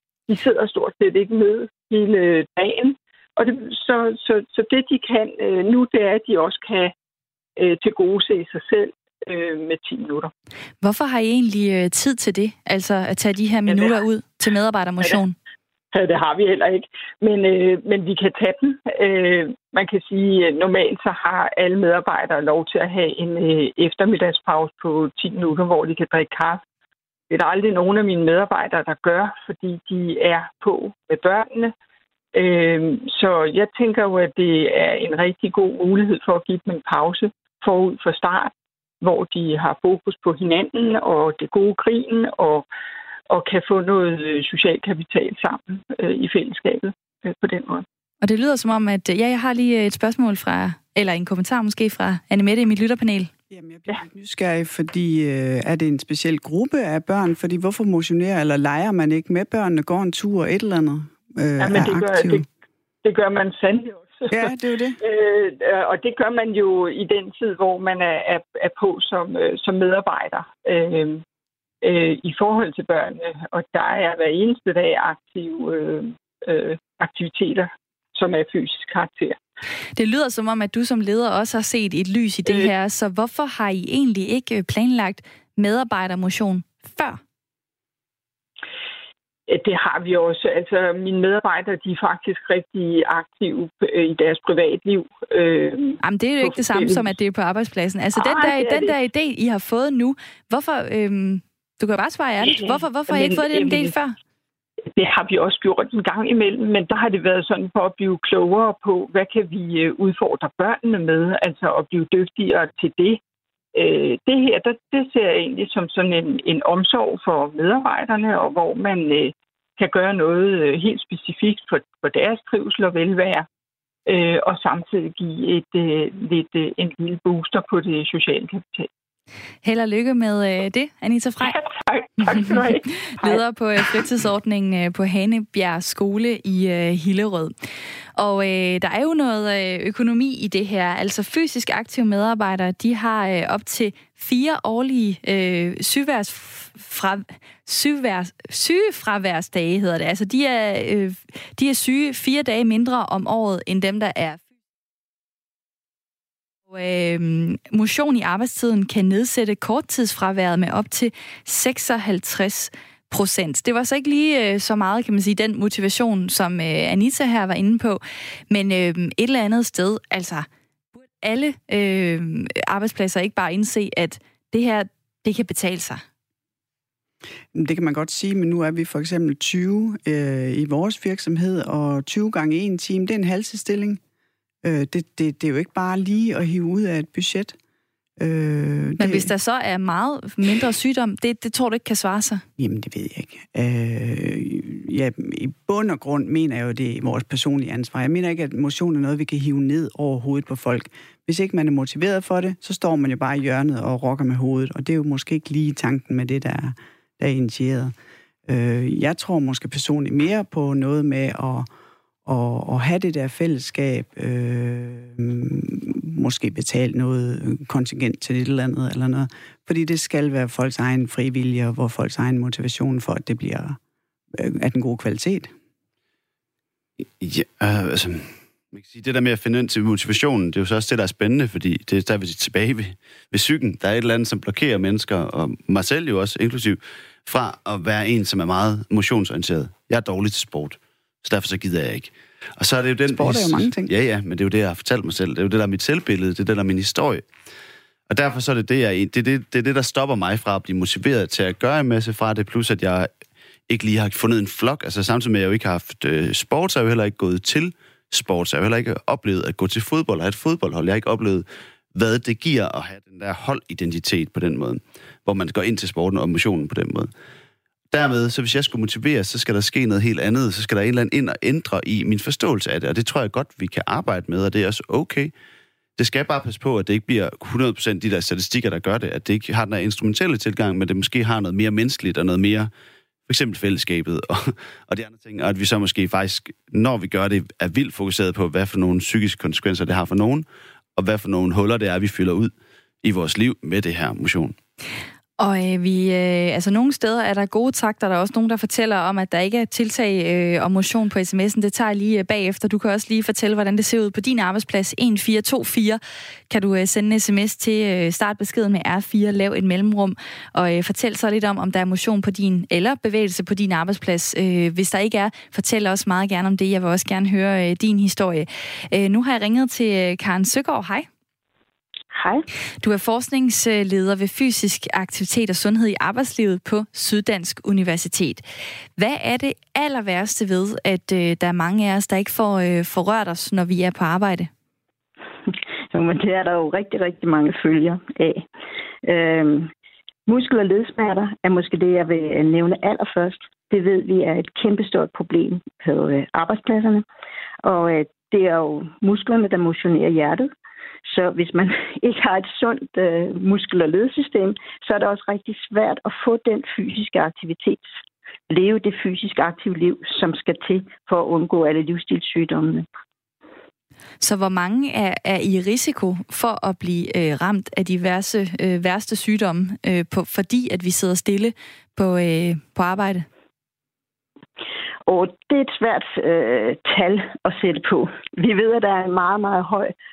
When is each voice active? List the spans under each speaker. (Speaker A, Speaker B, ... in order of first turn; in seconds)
Speaker A: 0.3-6.9, 7.6-10.3, 13.7-14.0, 15.9-26.6, 27.3-31.7, 32.3-42.6, 43.3-47.8, 61.6-62.4, 63.0-71.2, 71.8-79.4, 82.5-82.7, 89.5-97.1, 98.1-98.9, 102.4-103.9, 104.9-113.2, 113.7-123.5, 124.1-128.9, 131.4-134.0
Speaker B: 10.8-15.3, 48.2-53.3, 80.0-87.2, 96.0-104.1, 129.6-131.6, 132.5-137.5, 138.2-154.4, 156.7-170.5, 171.2-176.0, 189.0-192.4, 295.4-321.1, 322.8-328.4, 329.0-334.5, 364.2-373.3
Speaker C: 53.5-62.5, 64.3-65.0, 177.5-184.0, 184.6-187.6, 188.2-189.3, 192.6-207.9, 208.4-211.7, 212.2-223.8, 224.3-225.5, 243.1-243.9
Speaker D: 227.2-247.2, 248.1-253.1, 253.7-267.1, 267.9-275.3, 276.0-282.7, 283.3-292.5, 293.0-294.6
Speaker E: 322.1-322.4, 335.9-338.4, 339.0-339.7, 340.3-347.0, 347.6-350.5, 351.1-357.9, 358.5-362.9, 375.1-379.9